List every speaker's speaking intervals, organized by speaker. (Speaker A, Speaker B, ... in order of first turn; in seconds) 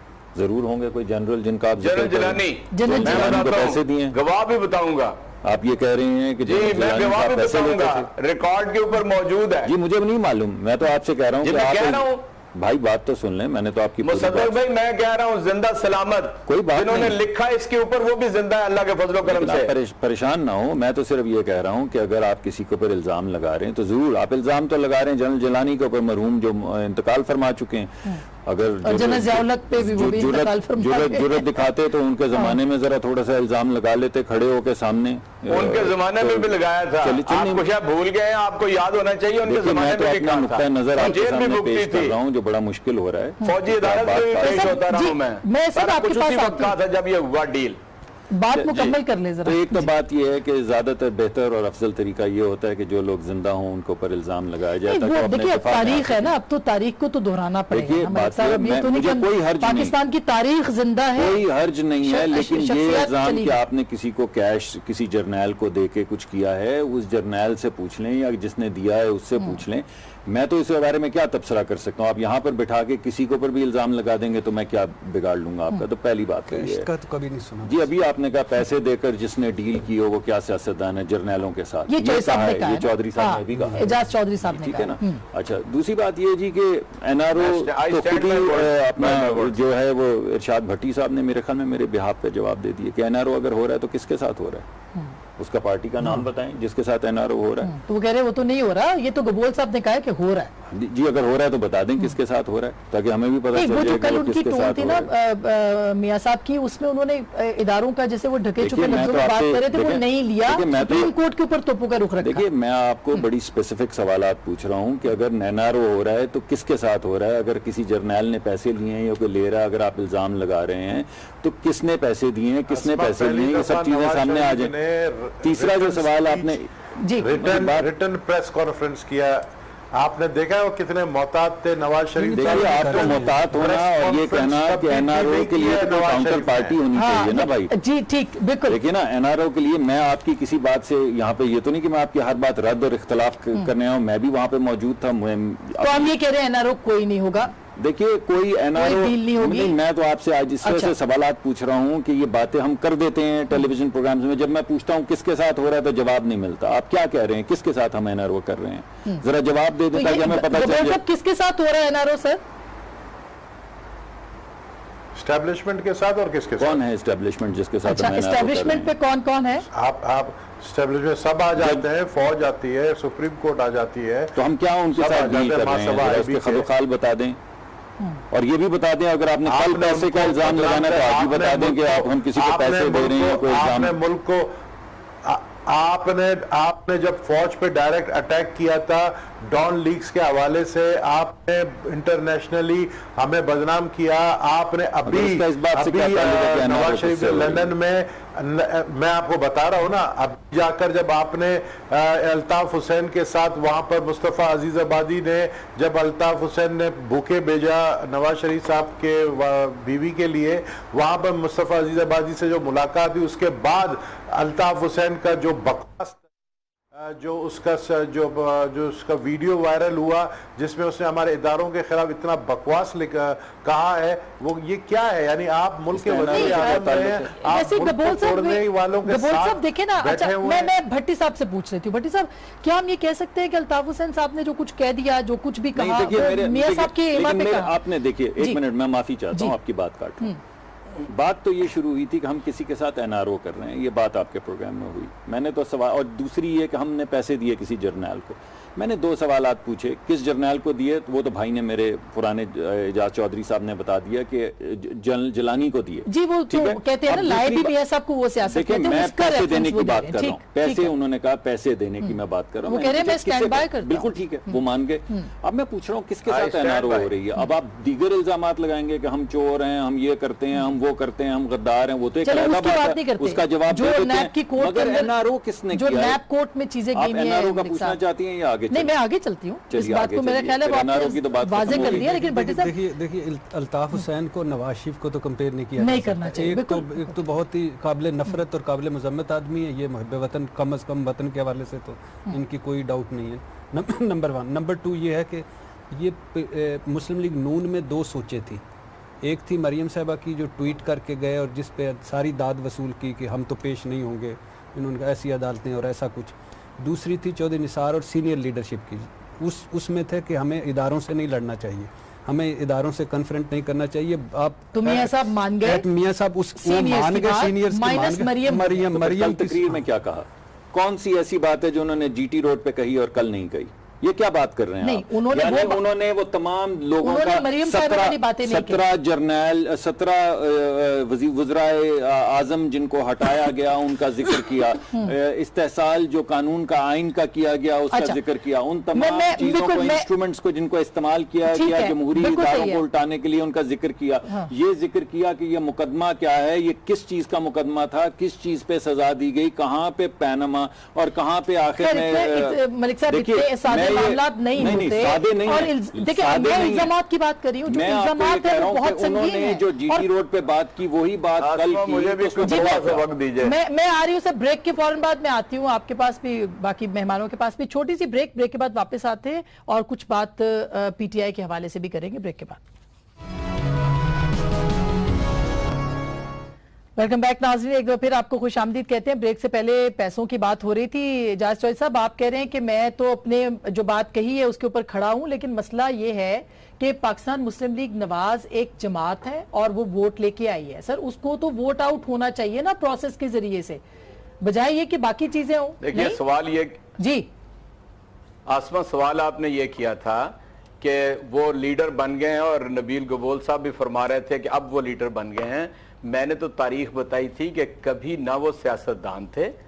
Speaker A: 0.3-4.2, 5.4-8.1, 9.6-14.6, 16.5-17.2, 19.2-37.6, 39.4-44.8, 48.5-56.3, 57.7-59.9, 61.1-76.9, 77.6-94.7, 95.4-97.7, 100.7-105.1, 108.6-111.1, 112.2-124.7, 125.4-126.7, 127.2-127.9, 132.4-137.7, 138.7-146.1, 147.8-161.0, 166.6-168.9, 174.3-177.4, 178.3-183.9, 195.1-197.7, 225.9-227.3, 235.8-240.3, 241.0-257.7, 258.5-276.2, 276.9-278.9, 279.7-282.1, 318.9-356.9, 357.7-363.1
Speaker B: 1.8-5.2, 6.4-9.7, 11.4-12.2, 14.0-19.7, 35.5-42.2, 43.4-47.8, 87.3-89.7, 226.8-227.3, 266.2-267.1, 361.4-363.5, 395.8-396.8, 398.4-409.5
Speaker C: 2.7-3.4, 28.8-31.6, 44.4-46.8, 48.3-49.9, 54.9-61.4, 62.0-63.6, 81.9-85.2, 97.6-100.5, 103.5-112.4, 127.0-127.3, 136.9-138.8, 145.8-147.5, 148.8-149.8, 150.6-150.9, 159.9-162.4, 167.8-169.7, 226.3-226.7, 227.4-237.8, 256.1-260.9, 262.0-264.6, 272.2-275.1, 275.7-278.0, 278.7-282.7, 285.8-287.1, 314.7-315.8, 316.6-318.7, 324.8-325.8, 327.0-328.8, 337.9-338.2, 338.9-340.1, 341.5-342.8, 351.8-360.1, 362.4-362.8, 363.4-372.6, 377.0-393.8, 394.4-396.2, 397.0-397.3
Speaker D: 76.5-77.8, 83.5-83.8, 132.2-133.4, 281.6-298.6, 299.2-319.8
Speaker E: 122.7-126.6, 127.2-136.8, 165.1-166.8, 169.7-176.7, 179.4-184.5, 185.2-216.2, 216.9-230.7